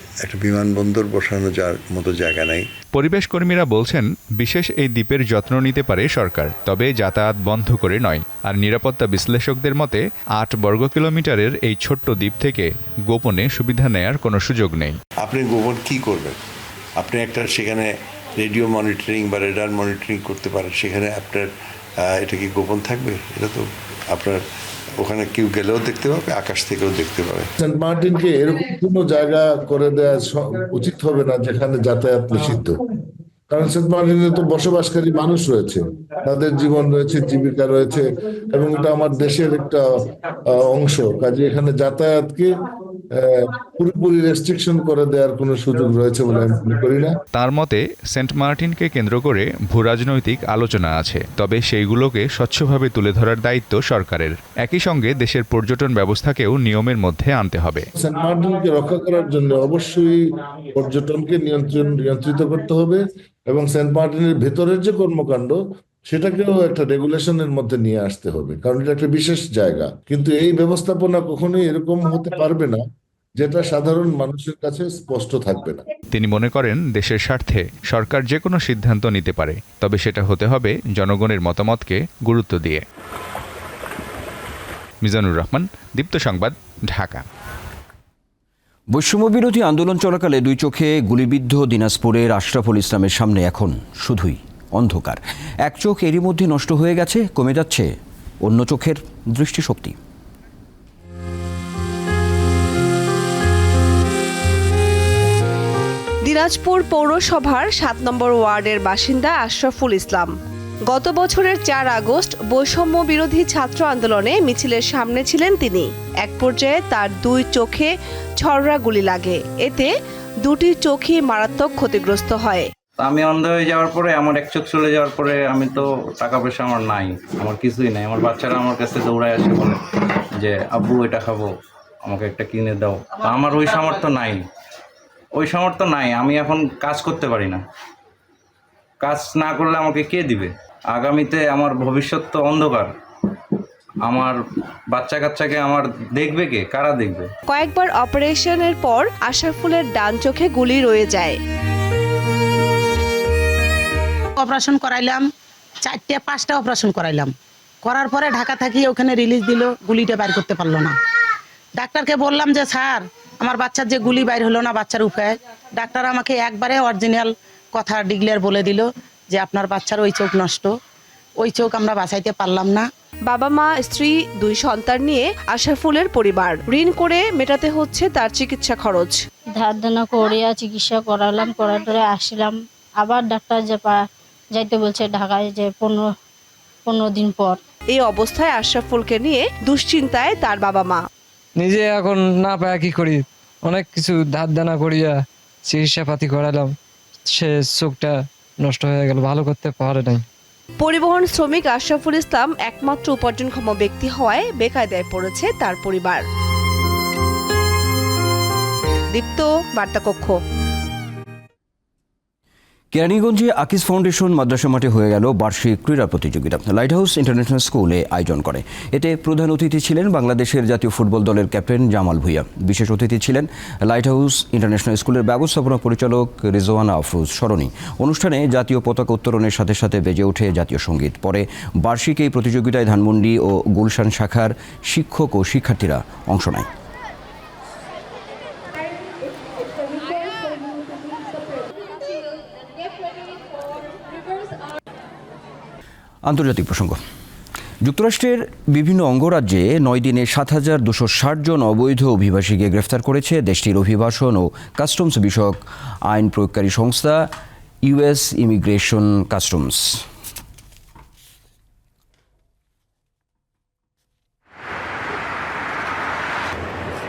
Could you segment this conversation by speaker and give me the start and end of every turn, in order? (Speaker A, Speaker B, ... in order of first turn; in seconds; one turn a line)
Speaker A: 0.2-2.7
Speaker B: 2.9-14.9
Speaker A: 15.2-16.4
Speaker A: 17.0-21.5
Speaker A: 22.0-24.4
Speaker A: 25.0-27.5
Speaker C: 27.6-32.8
Speaker C: 33.5-39.8
Speaker C: 40.5-42.5
Speaker C: 43.2-47.1
Speaker B: 47.3-57.9
Speaker C: 58.0-60.2
Speaker C: 60.7-72.8
Speaker C: 73.4-75.8
Speaker B: 76.1-82.8
Speaker B: 85.0-87.2
Speaker D: 88.9-97.9
Speaker D: 98.4-100.0
Speaker E: 106.2-110.3
Speaker E: 110.9-119.9
Speaker E: 120.4-122.7
Speaker F: 123.0-129.8
Speaker F: 130.4-131.5
Speaker F: 132.0-134.5
Speaker F: 135.3-137.6
Speaker F: 139.0-142.9
Speaker F: 144.1-144.4
Speaker F: 144.9-147.3
Speaker E: 147.5-151.4
Speaker G: 154.4-155.3
Speaker G: 155.8-157.3
Speaker G: 157.8-161.0
Speaker G: 161.8-170.7
Speaker G: 171.4-172.9
Speaker E: 173.3-179.2
Speaker H: 179.6-186.1
Speaker H: 186.9-187.6
Speaker E: 187.9-191.0
Speaker I: 191.6-196.7
Speaker I: 197.3-200.2
Speaker E: 200.8-206.2
Speaker E: 209.1-210.4
Speaker D: 212.9-236.7
Speaker D: 246.3-247.0
Speaker D: 247.8-257.3
Speaker D: 257.8-260.1